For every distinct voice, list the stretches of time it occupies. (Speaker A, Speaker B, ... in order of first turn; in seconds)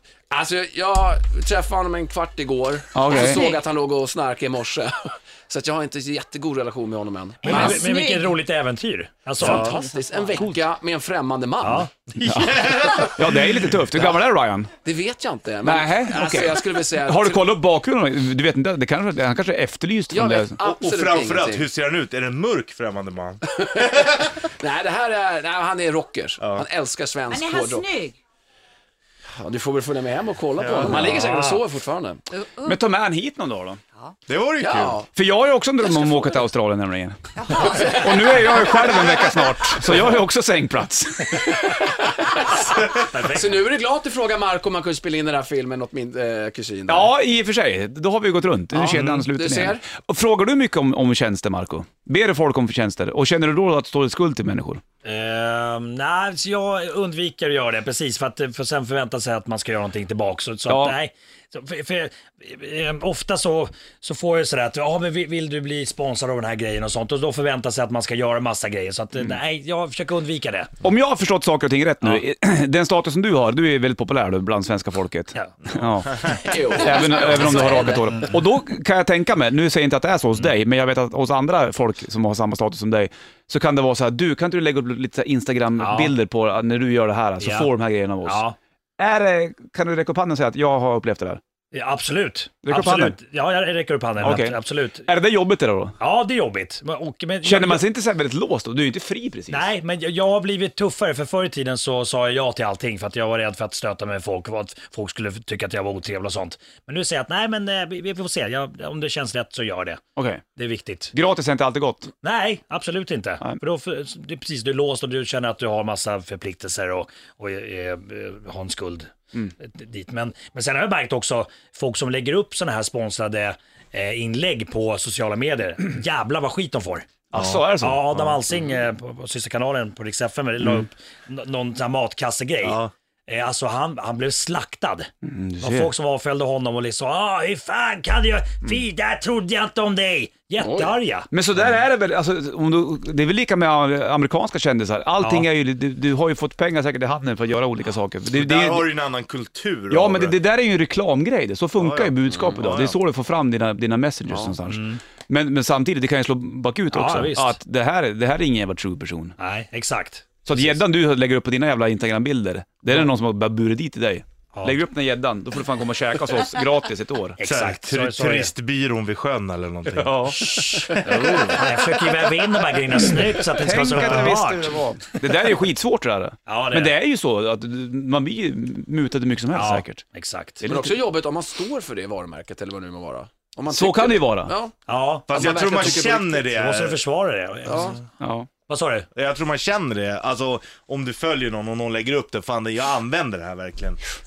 Speaker A: 0.3-7.8, 9.4-11.9, 14.8-17.5, 20.1-21.6, 23.5-27.9, 29.4-32.2, 34.6-35.1, 37.7-38.0, 41.3-47.1, 48.7-49.8, 76.3-78.1, 140.6-140.9, 154.3-154.5, 171.1-171.6, 180.6-184.8, 185.3-186.5, 187.7-188.0
Speaker B: 2.9-3.4, 12.2-14.7, 15.6-20.6, 30.9-31.3, 32.6-33.8, 35.1-37.1, 37.8-41.5, 46.9-54.8, 60.7-60.9, 70.8-88.4, 89.0-91.4, 92.6-93.2, 94.2-96.0, 97.4-99.7, 110.2-110.4, 111.1-112.1, 127.3-128.3, 135.2-135.9, 141.3-148.9, 149.9-159.3, 160.4-167.4, 169.9-171.5, 173.6-180.0, 180.6-181.0, 183.7-184.5, 188.2-188.5
Speaker C: 3.1-3.6, 7.4-8.3, 27.3-28.1, 32.4-32.8, 37.4-39.1
Speaker D: 7.4-9.8, 11.6-11.9, 30.8-31.6, 42.9-43.7, 55.0-70.7, 75.3-75.7, 76.2-78.3, 85.8-86.1, 87.4-87.7, 88.2-88.5, 91.7-95.1, 96.0-97.8, 99.5-110.0, 110.5-111.1, 112.2-127.2, 127.7-135.1, 135.6-141.3, 145.2-145.5, 154.7-155.0, 156.9-157.6, 159.4-160.8, 164.5-164.8, 167.4-168.5, 170.4-174.8, 176.5-177.0, 179.5-180.6, 184.9-188.0, 188.7-189.1
Speaker E: 9.4-9.8, 12.1-13.7, 20.6-24.3, 26.4-26.6, 30.6-31.1, 34.3-35.0, 127.3-127.6, 132.6-132.9, 148.3-150.4, 151.8-152.9, 167.4-171.6, 185.3-187.0, 189.1-194.0